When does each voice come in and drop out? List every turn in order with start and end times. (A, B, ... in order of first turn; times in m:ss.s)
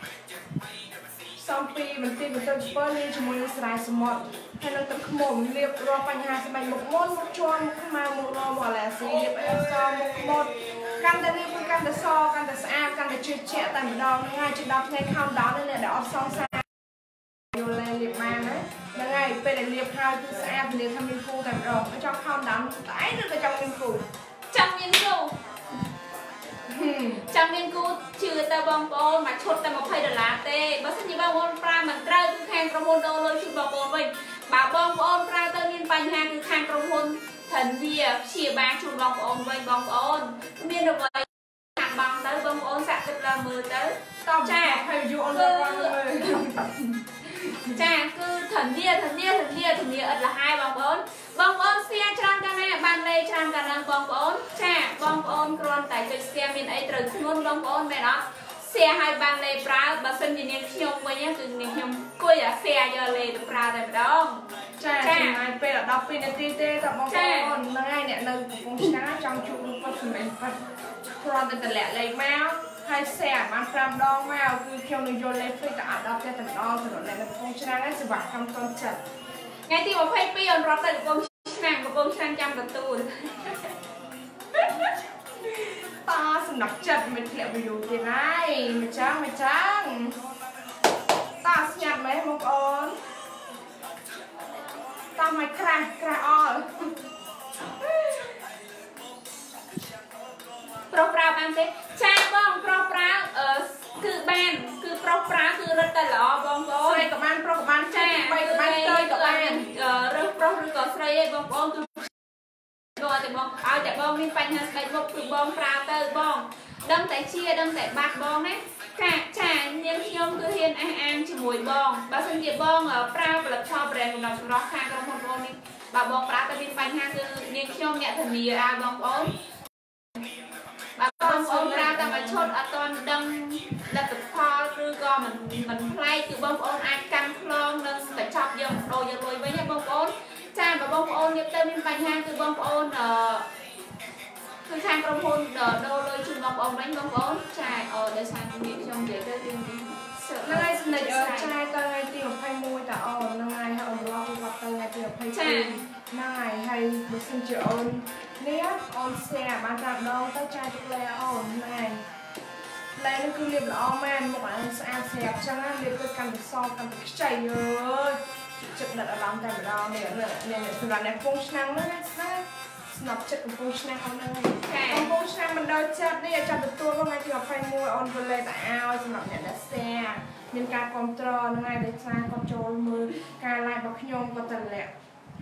0:01.4-0:16.8 A
0:17.4-0:24.0 A
0:24.5-0:25.4 B
0:26.7-0:27.2 A
0:27.3-0:46.6 B
0:44.2-0:46.7 A
0:47.4-1:04.4 B
1:04.8-1:10.6 A
1:05.0-1:05.4 B
1:07.1-1:07.6 B
1:11.1-1:19.0 A
1:19.7-1:23.7 B
1:25.7-1:30.2 A
1:31.4-1:33.0 A
1:35.2-1:36.9 A
1:40.9-1:47.1 B
1:46.8-1:49.6 A
1:47.9-1:52.1 B
1:53.0-2:09.3 B
2:11.0-2:23.4 B
2:11.2-2:12.5 A
2:24.7-2:31.5 B
2:30.4-2:42.0 A
2:35.3-2:35.8 B
2:43.0-3:04.9 A
2:54.6-2:55.1 B